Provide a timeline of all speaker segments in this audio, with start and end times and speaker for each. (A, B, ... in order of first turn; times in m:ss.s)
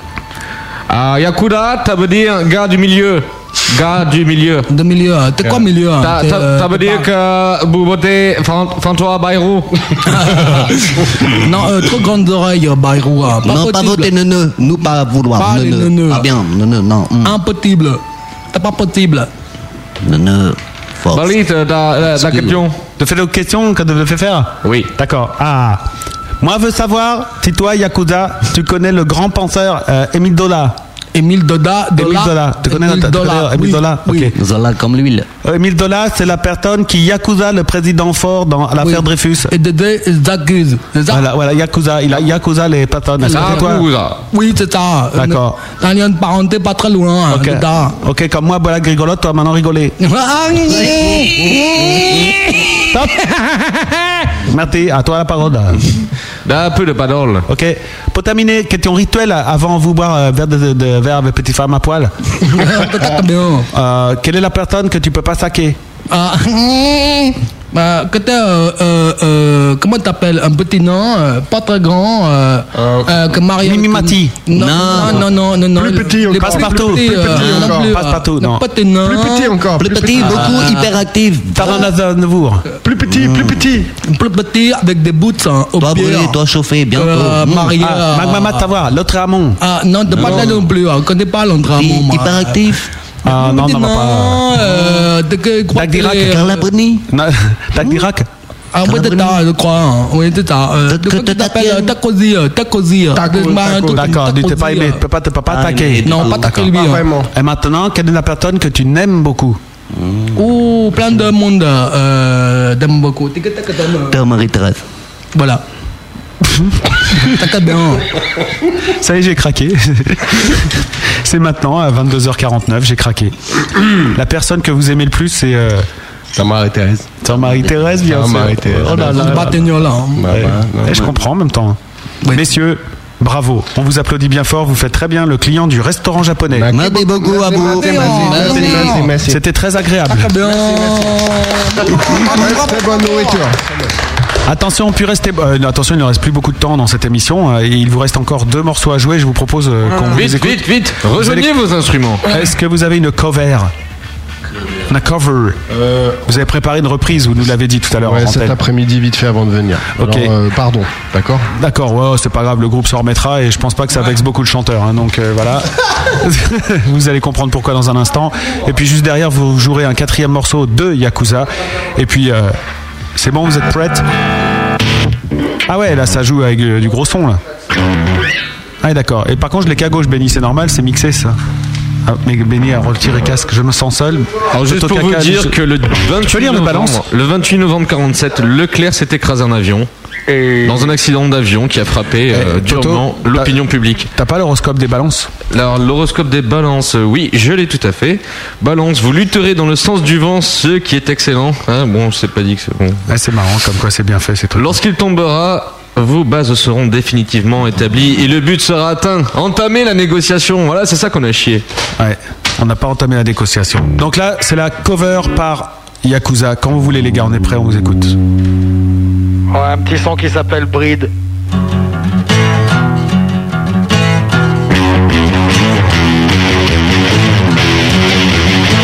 0:00.9-0:04.7 A
0:04.7-0:07.0 B
0:06.0-0:10.0 A
0:10.0-0:14.1 B
0:13.4-0:17.4 C
0:15.4-0:16.3 B
0:17.2-0:18.0 B
0:18.5-0:19.3 B
0:20.0-0:21.3 C
0:21.1-0:22.8 A
0:22.2-0:22.6 C
0:23.0-0:25.8 D
0:24.6-0:24.9 A
0:26.4-0:30.8 D
0:31.1-0:34.3 B
0:31.9-0:34.3 D
0:34.3-0:35.3 C
0:35.4-0:39.5 D
0:38.8-0:41.2 B
0:41.1-0:43.9 D
0:43.2-0:43.7 B
0:43.3-0:44.2 A
0:44.3-0:48.0 B
0:45.1-0:45.6 D
0:47.3-0:49.9 D
0:50.0-0:53.0 B
0:50.9-0:51.3 C
0:52.9-0:53.2 D
0:54.4-0:55.9 D
0:56.4-0:57.4 A
0:57.5-1:02.4 D
1:02.5-1:03.7 B
1:03.7-1:05.8 D
1:06.1-1:20.9 B
1:12.8-1:13.2 E
1:13.6-1:14.4 D
1:14.5-1:15.3 C
1:15.7-1:17.9 E
1:16.4-1:18.6 D
1:19.0-1:20.5 E
1:19.8-1:21.8 C
1:21.5-1:22.6 D
1:22.8-1:23.9 E
1:23.0-1:23.6 C
1:24.0-1:26.3 B
1:25.8-1:27.8 C
1:26.9-1:28.6 B
1:27.8-1:29.6 D
1:29.6-1:32.6 B
1:30.1-1:30.6 C
1:30.1-1:30.5 D
1:31.7-1:32.9 C
1:33.2-1:34.9 D
1:33.2-1:36.6 B
1:35.7-1:36.4 D
1:36.2-1:37.1 C
1:37.1-1:38.3 D
1:37.8-1:38.0 C
1:38.7-1:45.0 B
1:38.8-1:39.4 C
1:40.9-1:41.9 C
1:43.1-1:44.1 E
1:43.9-1:46.7 D
1:45.5-1:46.6 C
1:46.0-1:47.1 B
1:46.7-1:47.3 E
1:47.3-1:49.6 D
1:49.9-1:50.4 C
1:50.3-1:54.2 B
1:54.1-1:54.8 C
1:55.3-1:55.6 B
1:56.4-1:56.8 D
1:57.1-1:58.0 B
1:59.0-2:03.4 D
2:03.9-2:05.9 D
2:06.3-2:07.1 E
2:07.2-2:09.5 D
2:08.0-2:09.6 E
2:09.0-2:10.3 B
2:10.2-2:11.1 E
2:10.3-2:16.7 D
2:16.5-2:19.4 E
2:16.7-2:18.9 C
2:17.5-2:19.1 B
2:18.5-2:20.4 D
2:20.1-2:23.5 B
2:20.5-2:21.1 E
2:22.0-2:23.9 E
2:24.4-2:31.5 D
2:30.0-2:32.2 A
2:32.2-2:33.7 D
2:34.9-2:35.6 D
2:35.7-2:36.2 E
2:36.2-2:38.6 D
2:37.9-2:41.4 E
2:40.0-2:40.3 D
2:41.5-2:52.6 D
2:53.1-2:54.0 D
2:55.6-2:57.4 D
2:58.8-3:01.4 D
3:02.0-3:05.6 D
3:04.5-3:09.9 A
3:06.2-3:07.0 D
3:10.3-3:10.9 F
3:10.6-3:14.1 A
3:12.3-3:13.5 D
3:14.1-3:15.3 D
3:15.5-3:23.0 A
3:23.1-3:24.8 D
3:24.6-3:31.6 A
3:32.0-3:38.1 D
3:39.5-3:41.1 F